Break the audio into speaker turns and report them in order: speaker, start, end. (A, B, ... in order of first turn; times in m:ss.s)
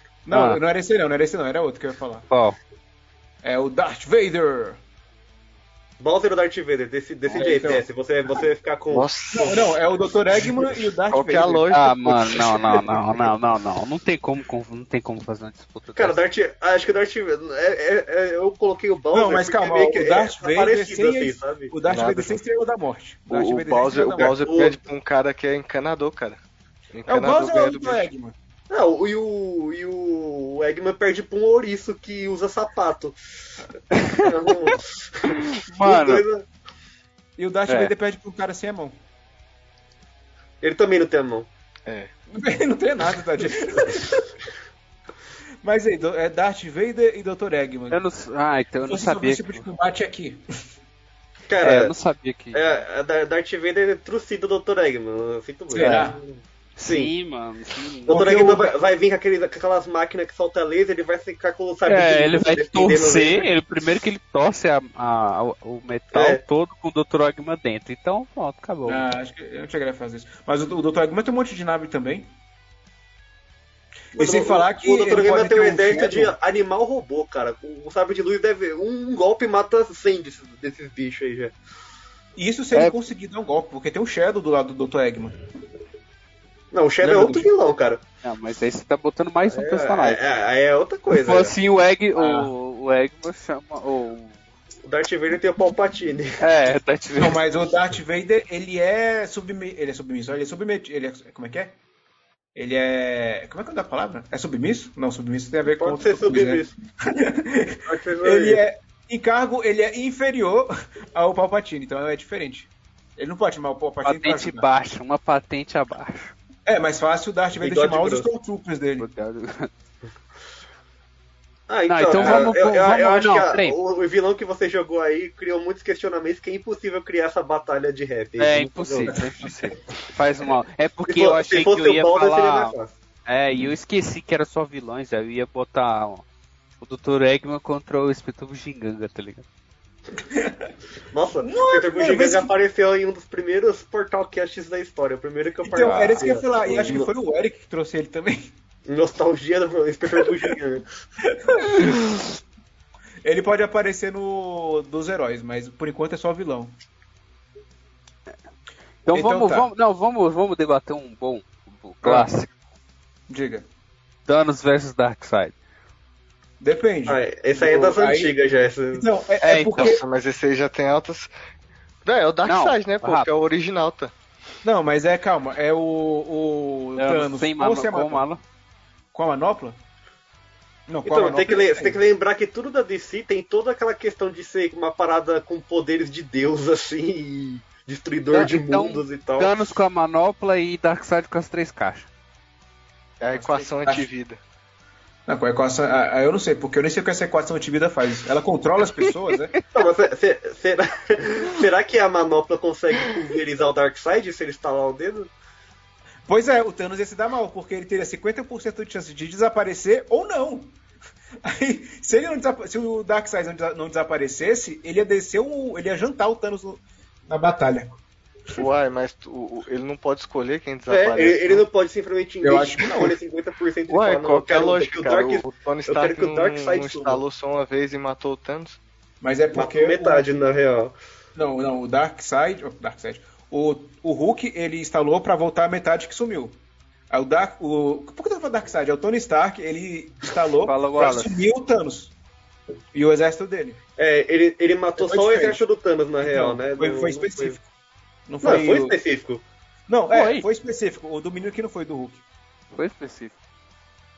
0:00.2-0:02.2 A
0:00.3-0:00.6 B
0:02.3-0:02.6 B
0:03.4-0:04.8 A
0:06.0-0:09.1 C
0:07.3-0:07.8 A
0:08.9-0:09.8 D
0:09.3-0:11.7 A
0:10.3-0:12.8 D
0:11.7-0:16.2 B
0:16.0-0:21.7 C
0:19.1-0:24.4 A
0:21.9-0:22.4 D
0:23.3-0:26.4 D
0:24.4-0:24.8 C
0:26.9-0:28.1 D
0:27.1-0:28.3 A
0:28.7-0:33.2 C
0:33.9-0:34.7 B
0:34.2-0:36.4 C
0:35.3-0:36.2 B
0:37.4-0:39.0 A
0:37.7-0:37.9 B
0:40.6-0:41.5 C
0:41.8-0:42.1 D
0:42.3-0:44.3 A
0:45.6-0:48.0 A
0:47.9-0:49.7 B
0:48.8-0:50.4 A
0:51.5-0:51.9 C
0:51.6-0:52.8 B
0:52.5-0:57.1 C
0:55.7-0:56.2 A
0:55.8-0:56.1 B
0:56.8-0:58.6 B
0:58.1-1:03.5 C
0:58.1-0:58.6 A
1:01.8-1:09.0 B
1:06.1-1:06.4 C
1:08.8-1:12.3 A
1:14.1-1:16.3 A
1:14.2-1:21.5 C
1:22.4-1:25.4 A
1:26.7-1:28.0 C
1:27.0-1:27.5 A
1:28.2-1:30.2 B
1:29.5-1:31.5 C
1:31.1-1:34.4 B
1:32.2-1:32.5 A
1:34.8-1:36.4 C
1:36.4-1:37.4 B
1:37.2-1:41.8 A
1:42.5-1:54.7 A
1:45.6-1:46.7 C
1:47.9-1:48.6 C
1:54.0-1:56.3 B
1:56.6-1:59.1 A
1:57.6-1:58.3 C
1:59.0-1:59.7 B
2:01.7-2:09.2 C
2:01.9-2:03.8 B
2:02.2-2:02.5 A
2:08.4-2:12.7 B
2:09.1-2:09.7 A
2:11.1-2:12.9 C
2:13.2-2:16.2 B
2:16.8-2:19.4 B
2:20.2-2:20.7 A
2:21.1-2:27.1 C
2:21.4-2:22.5 A
2:25.6-2:28.5 A
2:25.8-2:26.3 B
2:28.9-2:30.8 C
2:31.2-2:32.0 A
2:33.2-2:36.7 A
2:39.0-2:42.5 B
2:39.1-2:39.7 A
2:42.0-2:42.3 A
2:43.3-2:43.6 A
2:44.2-2:45.5 B
2:46.6-2:48.4 A
2:47.1-2:49.0 C
2:48.9-2:50.0 A
2:49.4-2:50.0 B
2:49.7-2:51.3 D
2:52.0-2:54.1 D
2:52.4-2:53.3 B
2:54.6-2:58.2 A
2:57.0-2:58.4 B
2:59.1-2:59.8 A
3:00.9-3:02.0 A
3:01.0-3:09.6 C
3:08.3-3:12.1 B
3:13.2-3:14.4 D
3:13.3-3:14.1 A
3:15.3-3:19.5 A
3:19.7-3:25.3 C
3:26.3-3:30.8 A
3:31.4-3:38.0 A
3:38.6-3:41.6 D
3:40.9-3:47.2 C
3:42.4-3:43.1 A
3:43.9-3:48.8 D
3:49.2-3:50.2 A
3:49.5-3:50.9 C
3:51.3-3:56.6 A
3:57.1-4:02.1 A
4:00.6-4:01.4 B
4:02.9-4:03.8 A
4:04.0-4:07.6 C
4:05.0-4:05.6 A
4:06.2-4:07.7 A
4:08.3-4:09.0 A
4:08.4-4:09.4 C
4:09.9-4:12.2 A
4:10.1-4:10.4 B
4:12.7-4:13.4 B